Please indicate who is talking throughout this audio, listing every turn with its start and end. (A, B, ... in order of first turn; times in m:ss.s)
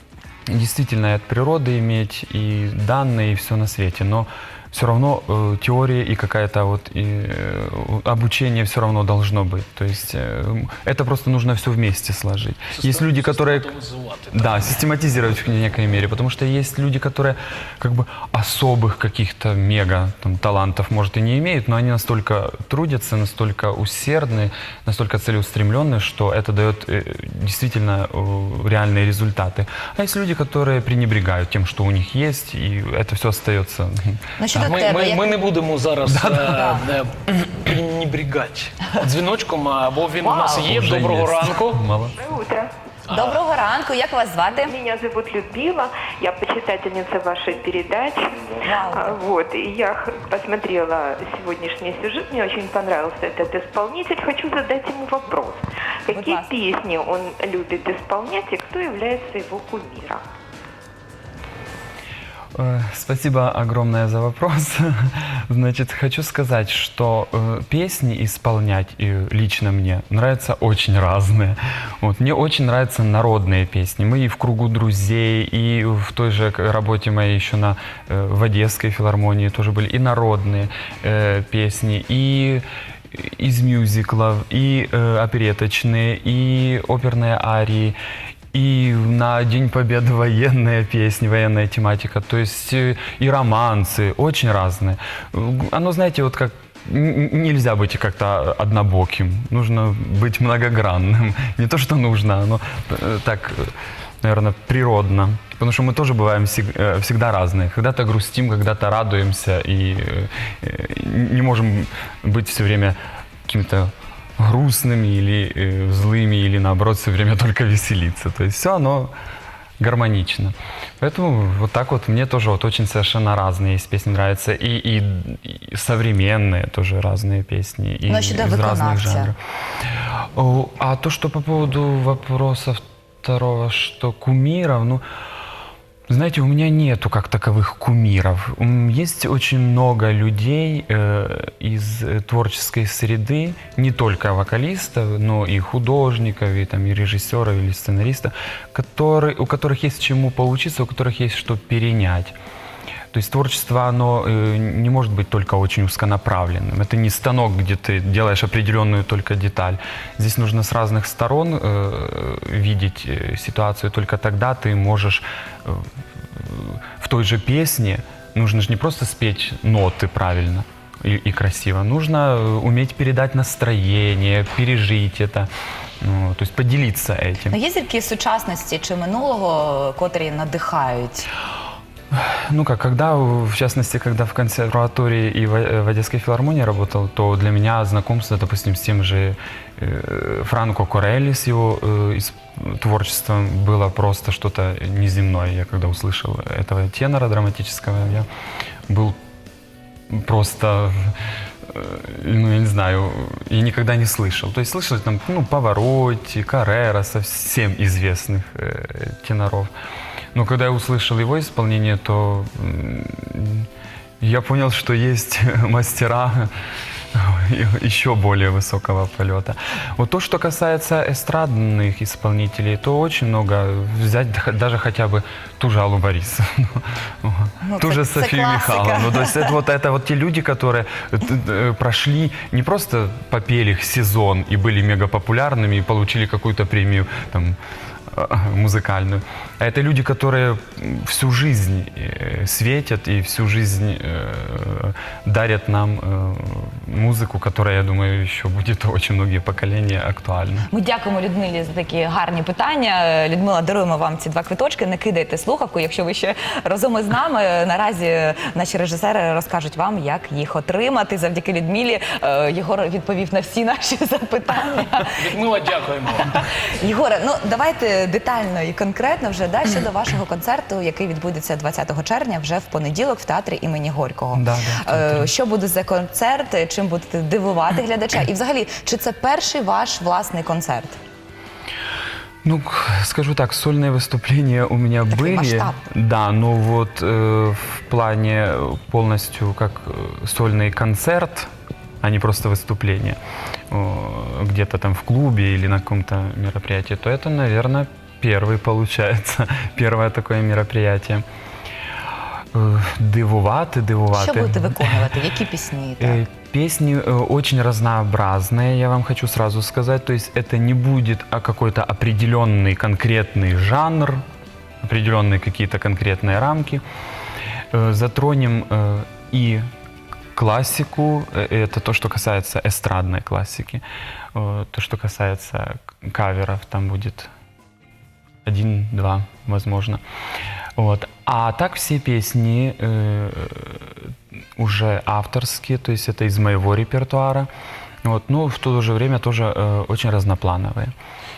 0:00.5-0:13.7 A
0:12.7-0:14.7 B
0:14.3-0:34.7 A
0:34.4-0:35.4 C
0:34.5-0:41.8 B
0:36.1-0:36.8 A
0:36.5-0:36.8 C
0:40.2-0:40.7 C
0:40.6-0:42.2 A
0:42.2-0:42.7 D
0:43.1-0:44.8 C
0:44.6-1:00.2 D
0:48.6-0:49.2 C
0:56.1-0:56.5 C
1:02.6-1:28.0 A
1:28.5-1:59.1 A
1:59.8-2:15.0 A
2:08.1-2:09.3 C
2:16.1-2:32.4 A
2:33.1-2:55.5 A
2:56.0-2:57.6 A
2:57.5-3:01.3 C
3:02.1-3:18.3 A
3:18.9-3:19.2 A
3:20.1-3:29.7 A
3:30.3-3:33.7 A
3:34.2-3:36.5 A
3:37.1-3:57.6 A
3:47.6-3:49.6 C
3:58.1-4:10.7 A
4:10.7-4:25.3 C
4:25.1-4:26.4 B
4:26.3-4:41.0 C
4:34.3-4:35.3 A
4:42.4-4:51.5 A
4:45.1-4:45.8 C
4:52.0-4:53.2 A
4:53.7-5:01.2 A
5:02.5-5:05.1 A
5:04.1-5:06.2 C
5:06.0-5:14.2 A
5:14.8-5:16.8 A
5:17.7-5:19.7 A
5:20.4-5:23.8 A
5:24.4-5:27.3 A
5:28.4-5:30.0 A
5:30.8-5:37.5 A
5:38.0-5:40.9 A